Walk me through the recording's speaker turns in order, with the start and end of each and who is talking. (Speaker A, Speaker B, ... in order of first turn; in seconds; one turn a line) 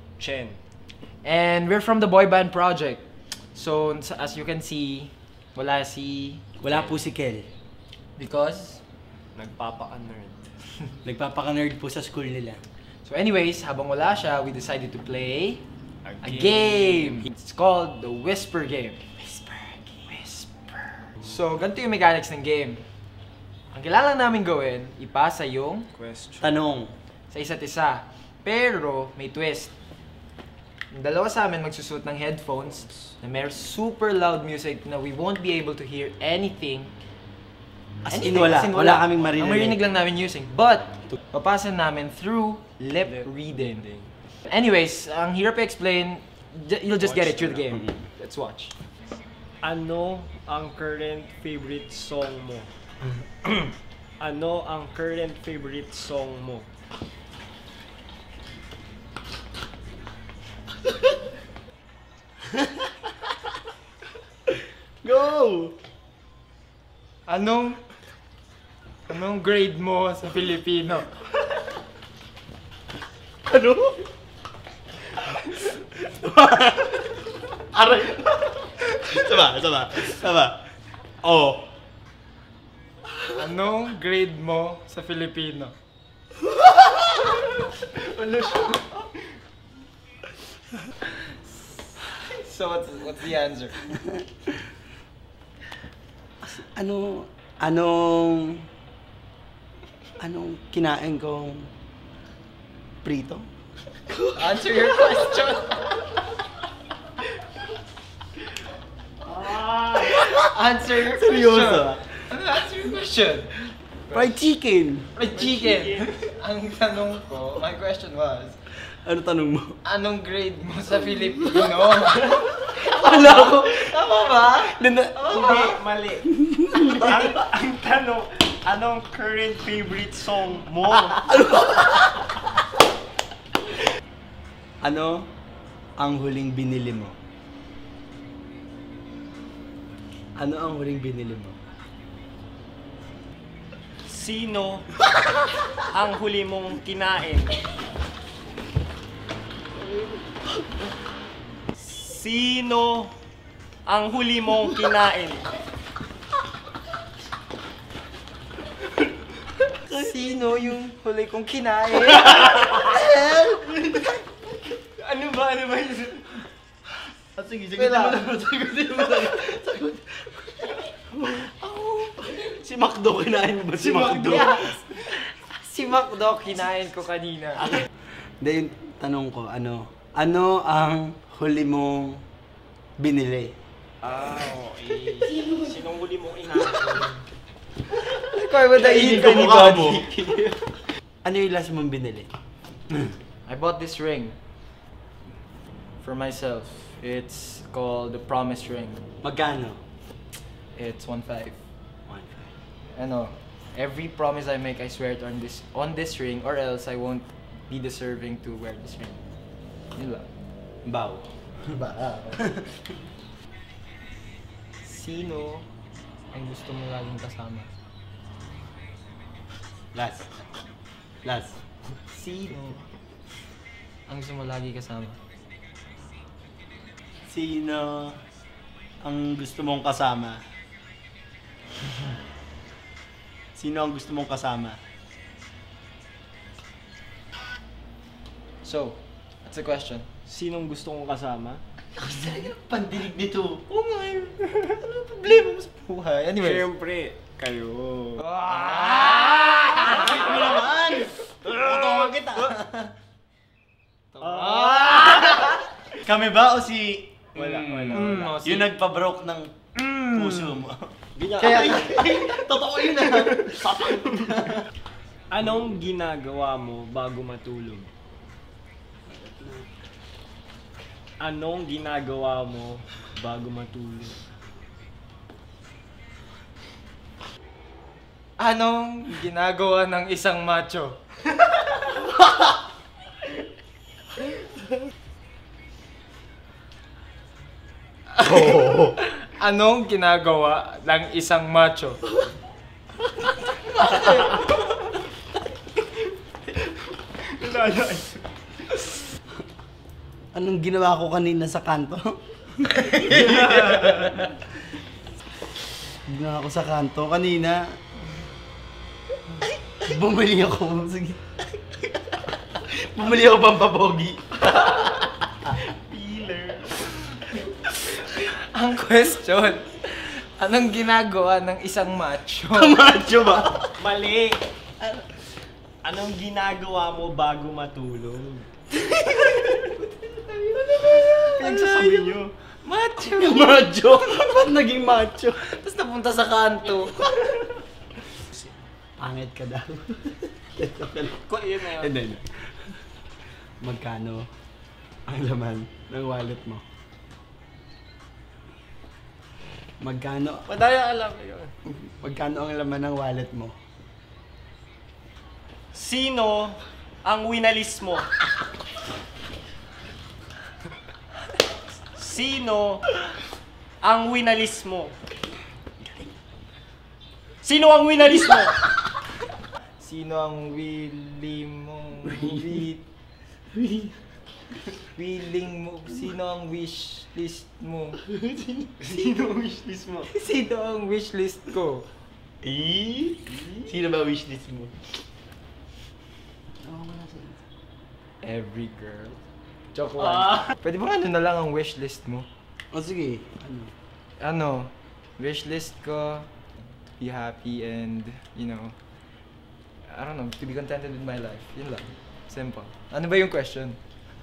Speaker A: 0.2-0.6
Speaker B: 1.2-6.4
Speaker C: 6.6-7.5
Speaker A: 6.7-7.0
Speaker B: 8.2-8.8
Speaker A: 9.3-10.5
Speaker C: 11.0-12.6
Speaker B: 13.0-15.6
Speaker A: 16.0-17.3
Speaker B: 16.2-19.0
Speaker A: 19.2-19.9
Speaker B: 20.1-22.8
Speaker B: 23.7-25.9
Speaker A: 25.9-26.5
Speaker C: 26.4-26.9
Speaker B: 27.3-29.7
Speaker B: 30.9-36.9
Speaker A: 32.8-33.1
Speaker C: 38.0-39.8
Speaker B: 38.1-43.8
Speaker A: 43.0-44.1
Speaker B: 44.5-48.7
Speaker A: 47.0-47.8
Speaker A: 49.6-52.7
Speaker A: 54.2-56.7
Speaker C: 65.0-65.7
Speaker B: 67.3-67.8
Speaker B: 69.1-71.2
Speaker C: 73.5-74.0
Speaker C: 75.3-80.7
Speaker C: 81.2-81.7
Speaker B: 83.2-85.7
Speaker A: 87.9-88.9
Speaker B: 92.0-93.8
Speaker C: 96.4-98.7
Speaker C: 100.2-101.7
Speaker C: 103.0-103.5
Speaker B: 104.3-106.2
Speaker A: 109.2-110.2
Speaker C: 110.2-112.2
Speaker B: 110.2-114.3
Speaker C: 114.1-115.1
Speaker B: 115.1-118.6
Speaker A: 115.3-116.2
Speaker C: 118.8-119.8
Speaker B: 119.8-125.8
Speaker C: 122.7-124.0
Speaker C: 124.6-125.2
Speaker A: 125.2-131.5
Speaker C: 126.3-127.1
Speaker C: 131.3-132.3
Speaker C: 134.8-135.3
Speaker C: 136.0-137.2
Speaker C: 140.3-141.6
Speaker A: 144.0-144.9
Speaker A: 145.8-147.6
Speaker A: 151.8-153.1
Speaker A: 153.8-155.5
Speaker C: 159.9-160.2
Speaker B: 159.9-163.1
Speaker C: 162.9-163.7
Speaker A: 163.8-164.2
Speaker A: 164.8-166.4
Speaker C: 167.3-174.8
Speaker B: 167.8-168.2
Speaker B: 173.8-177.8
Speaker C: 178.4-182.2
Speaker C: 183.0-183.5
Speaker A: 184.0-187.2
Speaker B: 188.0-190.1
Speaker C: 188.7-190.1
Speaker A: 190.1-190.7
Speaker C: 191.2-192.3
Speaker B: 193.4-194.3
Speaker B: 196.0-199.0
Speaker C: 199.2-199.8
Speaker B: 200.7-201.6
Speaker C: 202.1-202.5
Speaker B: 202.9-209.2
Speaker B: 209.9-210.3
Speaker C: 210.8-212.8
Speaker B: 214.8-215.7
Speaker B: 216.3-217.7
Speaker C: 219.9-220.3
Speaker C: 221.2-221.6
Speaker B: 222.1-222.9
Speaker B: 224.1-225.2
Speaker C: 227.3-228.2
Speaker C: 229.0-230.4
Speaker C: 233.6-234.8
Speaker B: 238.6-240.1
Speaker A: 240.3-241.6
Speaker C: 241.9-243.6
Speaker B: 243.7-246.7
Speaker A: 246.4-248.2
Speaker B: 248.2-250.0
Speaker C: 248.7-252.9
Speaker B: 254.1-255.6
Speaker A: 254.2-255.4
Speaker C: 255.9-264.6
Speaker A: 257.3-258.4
Speaker B: 257.9-258.7
Speaker B: 259.8-260.5
Speaker A: 261.1-262.3
Speaker A: 263.2-264.3
Speaker A: 265.3-267.9
Speaker C: 269.1-269.7
Speaker A: 271.2-274.2
Speaker B: 278.4-281.0
Speaker B: 288.1-292.0
Speaker C: 288.2-288.9
Speaker B: 293.6-294.5
Speaker A: 297.1-298.9
Speaker C: 300.3-304.3
Speaker B: 302.8-303.1
Speaker A: 303.1-304.2
Speaker C: 306.1-307.7
Speaker C: 309.6-311.2
Speaker C: 312.4-314.4
Speaker A: 314.6-316.9
Speaker B: 317.9-322.8
Speaker C: 322.5-323.8
Speaker A: 323.8-324.4
Speaker A: 325.8-328.5
Speaker C: 329.0-329.4
Speaker B: 329.1-331.6
Speaker C: 331.4-332.2
Speaker A: 331.4-332.3
Speaker B: 332.6-334.3
Speaker C: 333.0-335.4
Speaker B: 335.4-337.3
Speaker C: 339.0-342.8
Speaker A: 341.2-341.9
Speaker C: 343.6-344.3
Speaker C: 345.1-346.6
Speaker C: 349.8-350.4
Speaker A: 350.5-351.5
Speaker C: 351.6-353.5
Speaker A: 355.7-358.1
Speaker A: 361.9-363.0
Speaker A: 363.8-364.9
Speaker A: 367.4-368.7
Speaker B: 369.8-372.8
Speaker B: 374.9-378.0
Speaker C: 378.3-378.6
Speaker A: 378.8-380.1
Speaker B: 380.1-381.9
Speaker C: 382.4-384.9
Speaker C: 386.6-387.4
Speaker B: 388.2-389.2
Speaker B: 389.7-392.3
Speaker C: 392.7-393.7
Speaker B: 394.2-396.3
Speaker B: 396.9-398.8
Speaker B: 399.9-403.8